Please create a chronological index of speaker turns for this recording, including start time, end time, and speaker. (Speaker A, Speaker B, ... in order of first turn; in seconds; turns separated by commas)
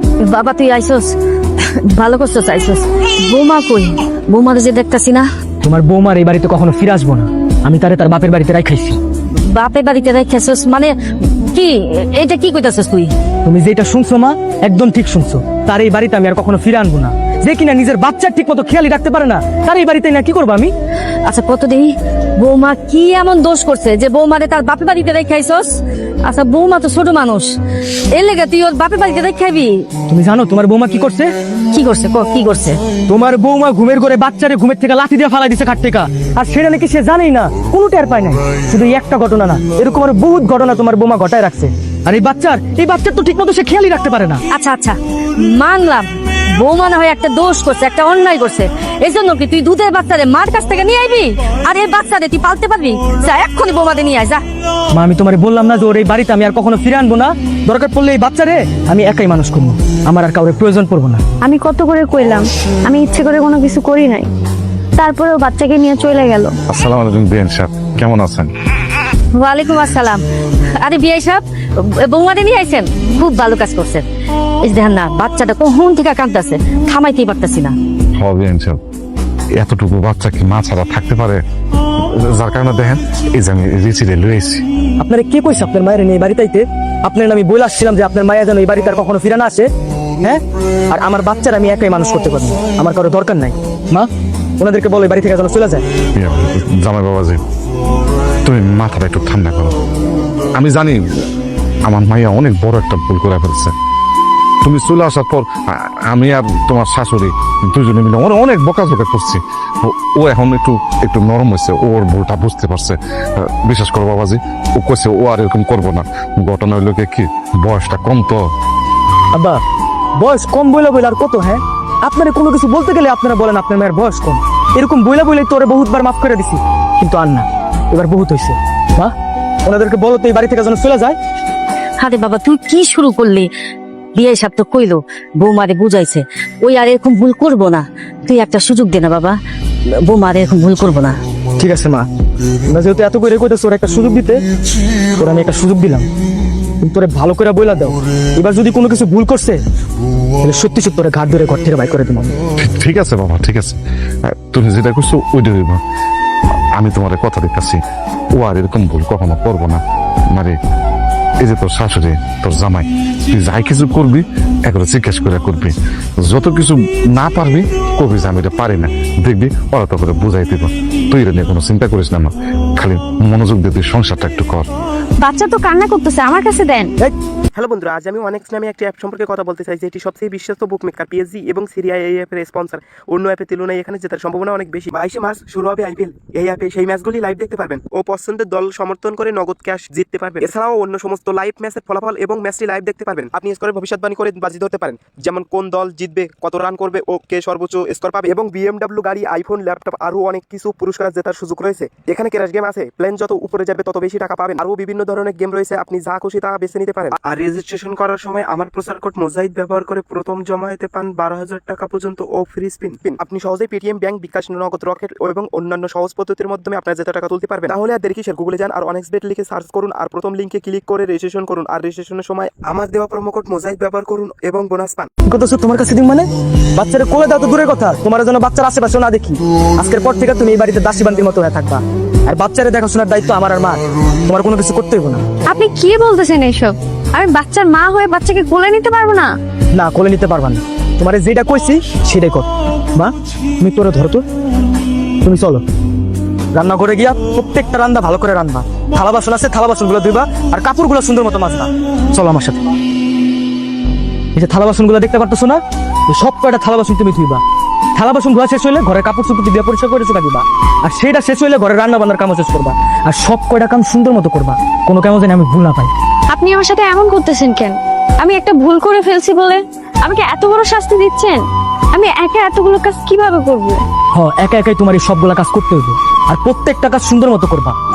Speaker A: 0.2-1.1, Speaker A: 1.9-5.3, Speaker B: 5.6-9.0, Speaker A: 9.5-10.9, Speaker A: 11.5-13.1, Speaker B: 13.4-20.7, Speaker A: 21.3-27.5, Speaker A: 28.1-29.8, Speaker B: 30.1-31.3, Speaker A: 31.7-32.8, Speaker B: 33.1-44.4, Speaker A: 44.5-54.4, Speaker B: 54.9-61.2, Speaker C: 61.5-64.3, Speaker C: 65.0-66.5, Speaker D: 66.7-68.5, Speaker A: 69.3-70.2, Speaker A: 70.8-74.0, Speaker A: 74.6-77.7, Speaker D: 78.2-78.8, Speaker D: 79.5-81.4, Speaker D: 82.0-84.6, Speaker B: 85.0-89.7, Speaker B: 90.2-95.8, Speaker D: 96.1-97.4, Speaker D: 98.4-99.8, Speaker D: 100.5-101.0, Speaker D: 101.9-103.7, Speaker D: 104.6-118.4, Speaker B: 119.3-119.6, Speaker B: 120.2-129.1, Speaker B: 129.6-131.2, Speaker A: 132.0-133.5, Speaker A: 134.1-139.4, Speaker A: 140.0-141.2, Speaker B: 141.6-142.1, Speaker B: 142.7-144.4, Speaker B: 145.2-146.0, Speaker B: 146.8-149.6, Speaker B: 150.4-152.3, Speaker D: 152.6-155.8, Speaker D: 156.8-157.8, Speaker D: 158.3-159.8, Speaker D: 161.4-165.7, Speaker D: 166.2-174.7, Speaker C: 175.2-176.9, Speaker E: 177.5-225.1, Speaker B: 225.3-235.2, Speaker C: 235.5-239.3, Speaker B: 239.7-244.2, Speaker B: 245.2-245.6, Speaker B: 246.5-252.7, Speaker B: 254.3-257.4, Speaker B: 257.9-265.9, Speaker C: 266.3-271.4, Speaker C: 271.9-273.8, Speaker B: 274.1-277.8